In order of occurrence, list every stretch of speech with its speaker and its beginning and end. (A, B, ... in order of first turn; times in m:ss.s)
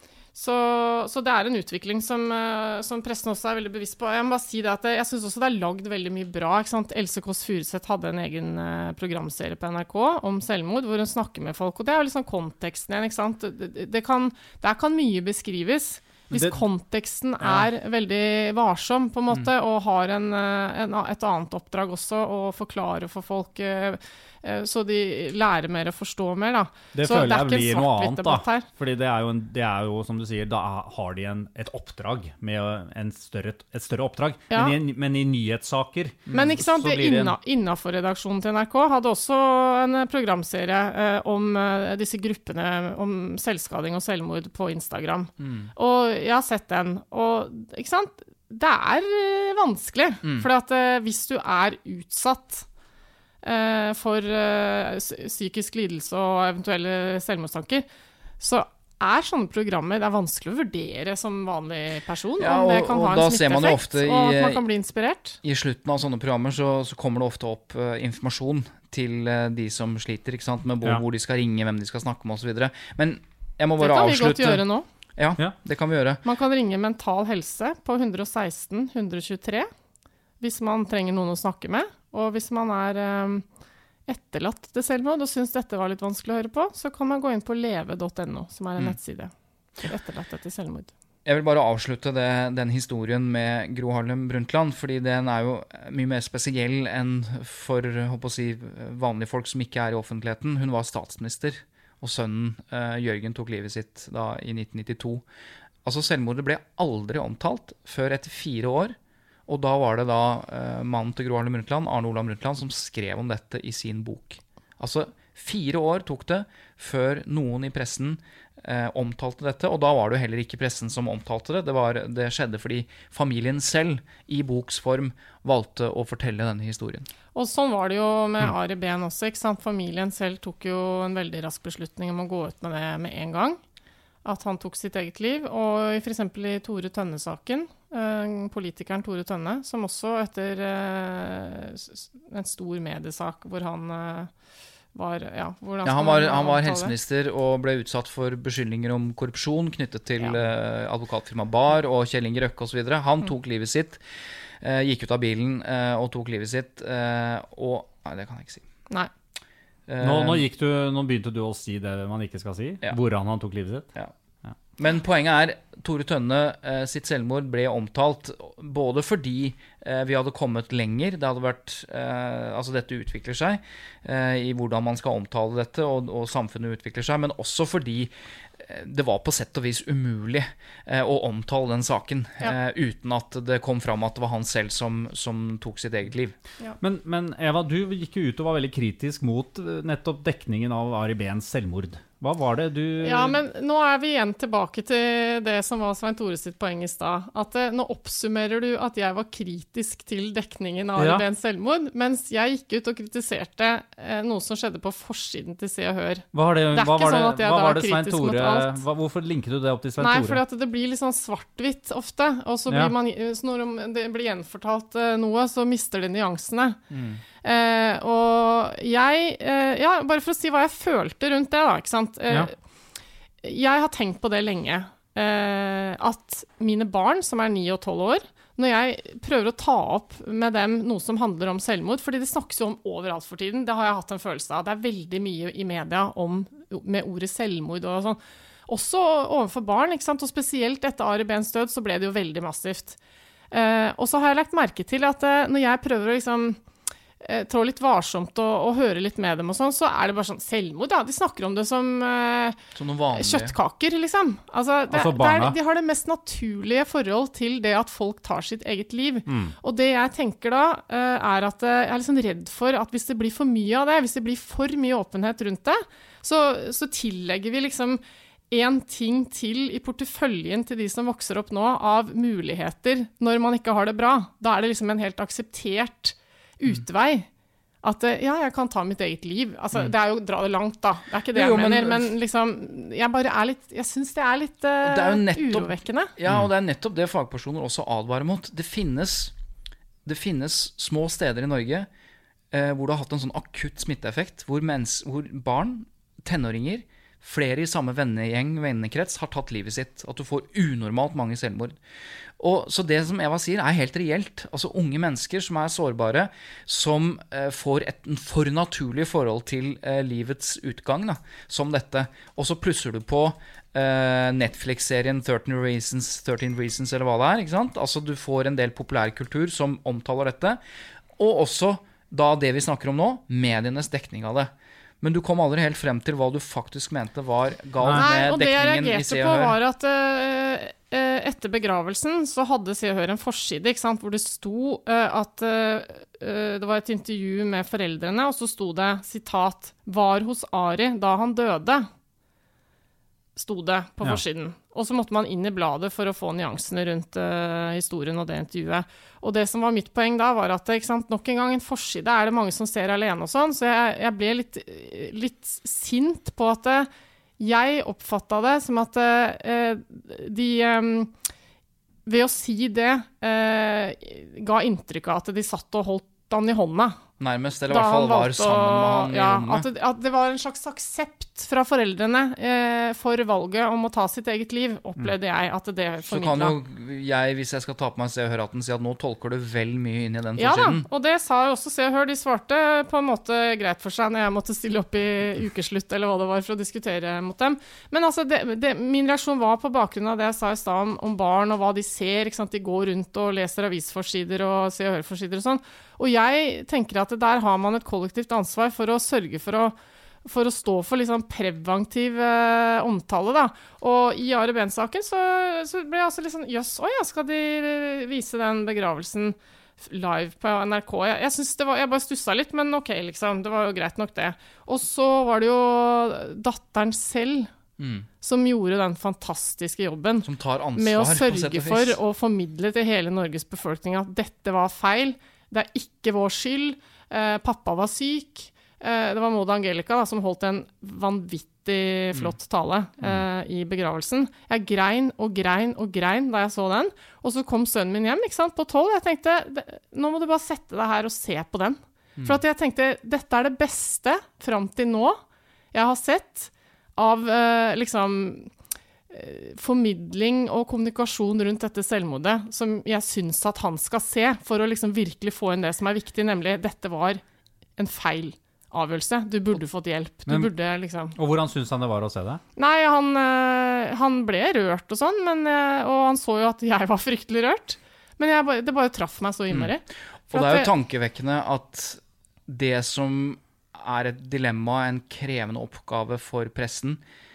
0:00.4-0:28.7 A
0:16.3-0:16.6 B
0:17.4-0:17.7 B
0:26.9-0:37.4 B
0:34.5-0:34.8 A
0:36.3-0:52.6 A
0:45.4-0:45.7 C
0:50.2-0:50.5 C
0:53.4-0:57.9 A
0:58.4-1:05.4 A
1:02.4-1:04.6 C
1:05.4-1:14.6 C
1:13.8-1:14.9 A
1:15.2-1:16.2 C
1:16.2-1:19.7 A
1:20.4-1:23.4 A
1:24.1-1:29.3 A
1:29.8-1:30.9 A
1:31.3-1:45.2 C
1:45.8-1:49.0 C
1:49.5-2:07.1 C
2:07.3-2:13.6 A
2:14.2-2:24.3 A
2:24.9-2:27.0 A
2:25.8-2:34.0 C
2:34.6-2:38.6 C
2:39.9-2:40.4 C
2:40.0-2:43.9 B
2:44.8-3:06.4 C
3:06.8-3:13.4 B
3:13.0-3:28.8 A
3:21.0-3:21.3 B
3:26.3-3:30.4 B
3:30.0-3:36.8 A
3:36.9-3:37.2 C
3:37.4-3:42.5 A
3:43.4-4:03.0 A
4:03.5-4:06.6 A
4:07.2-4:12.6 A
4:12.8-4:13.5 C
4:13.2-4:28.0 A
4:14.9-4:15.6 B
4:19.3-4:19.5 B
4:28.5-4:37.3 A
4:37.8-4:46.1 A
4:41.4-4:42.1 C
4:44.8-4:49.3 C
4:50.0-4:51.9 C
4:52.5-5:01.8 C
5:02.4-5:20.6 C
5:21.2-5:29.6 C
5:27.8-5:28.1 B
5:27.9-5:41.9 A
5:43.4-6:01.1 A
6:02.1-6:07.0 A
6:07.2-6:09.7 C
6:07.7-6:16.6 A
6:16.1-6:20.9 C
6:20.4-6:57.5 A
6:57.8-6:58.1 C
6:58.2-7:25.2 A
7:00.2-7:02.0 C
7:25.7-7:28.5 A
7:29.1-7:37.2 A
7:37.8-7:41.2 A
7:41.2-7:42.4 B
7:42.6-7:50.7 A
7:50.3-7:57.0 C